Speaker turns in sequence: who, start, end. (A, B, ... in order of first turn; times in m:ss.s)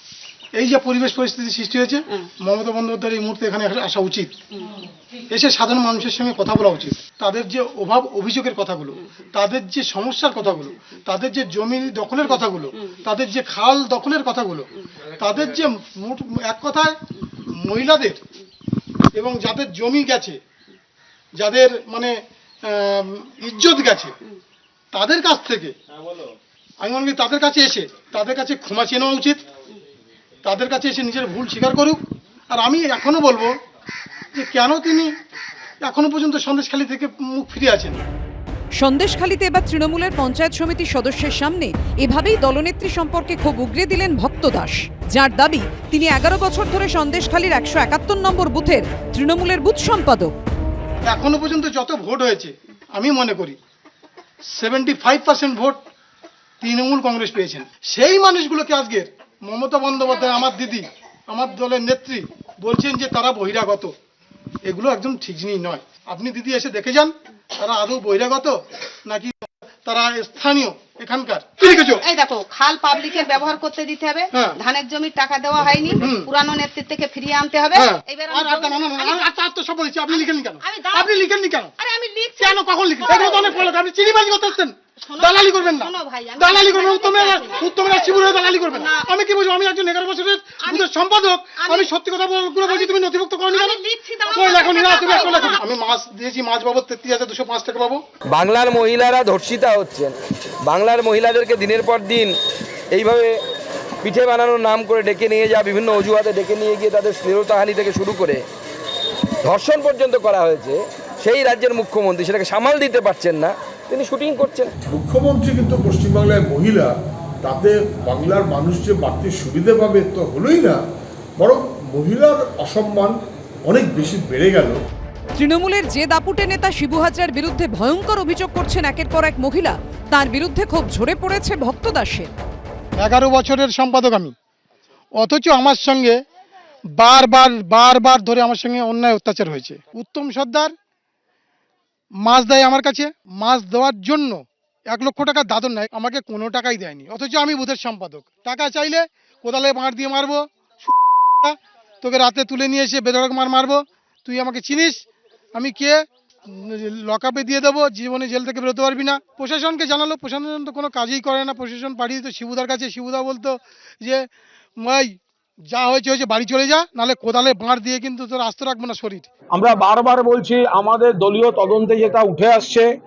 0:00.6-0:04.3 A
0:04.5-0:04.8 B
0:05.3-0:17.0 A
0:17.5-0:18.2 A
0:19.1-0:20.4 A
0:21.4-0:24.1 A
0:24.9-0:25.7 A
0:26.8-0:29.4 A
0:30.4-0:32.0 A
0:32.5-0:33.5 A
0:34.3-0:35.1 A
0:35.8-0:38.0 A
0:38.8-0:50.3 C
0:51.0-0:53.6 A
0:54.5-0:55.8 A
0:56.6-1:03.9 A
1:04.6-1:12.0 A
1:11.6-1:19.2 B
1:14.3-1:14.6 A
1:16.0-1:16.3 A
1:17.7-1:21.7 A
1:20.1-1:21.1 B
1:21.8-1:23.7 B
1:22.4-1:38.0 A
1:25.0-1:29.1 B
1:31.6-1:31.9 B
1:33.5-1:35.6 B
1:38.3-1:40.1 D
1:40.6-1:42.4 D
1:42.9-1:43.4 D
1:44.0-1:48.4 D
1:49.4-1:54.7 D
1:54.8-1:56.9 E
1:57.4-2:00.8 E
2:01.4-2:03.1 E
2:03.7-2:04.8 E
2:05.4-2:12.3 C
2:13.0-2:14.3 A
2:15.2-2:16.2 A
2:17.0-2:20.7 A
2:22.2-2:44.3 A
2:44.8-2:45.2 A
2:45.7-2:49.3 A
2:49.5-2:52.9 F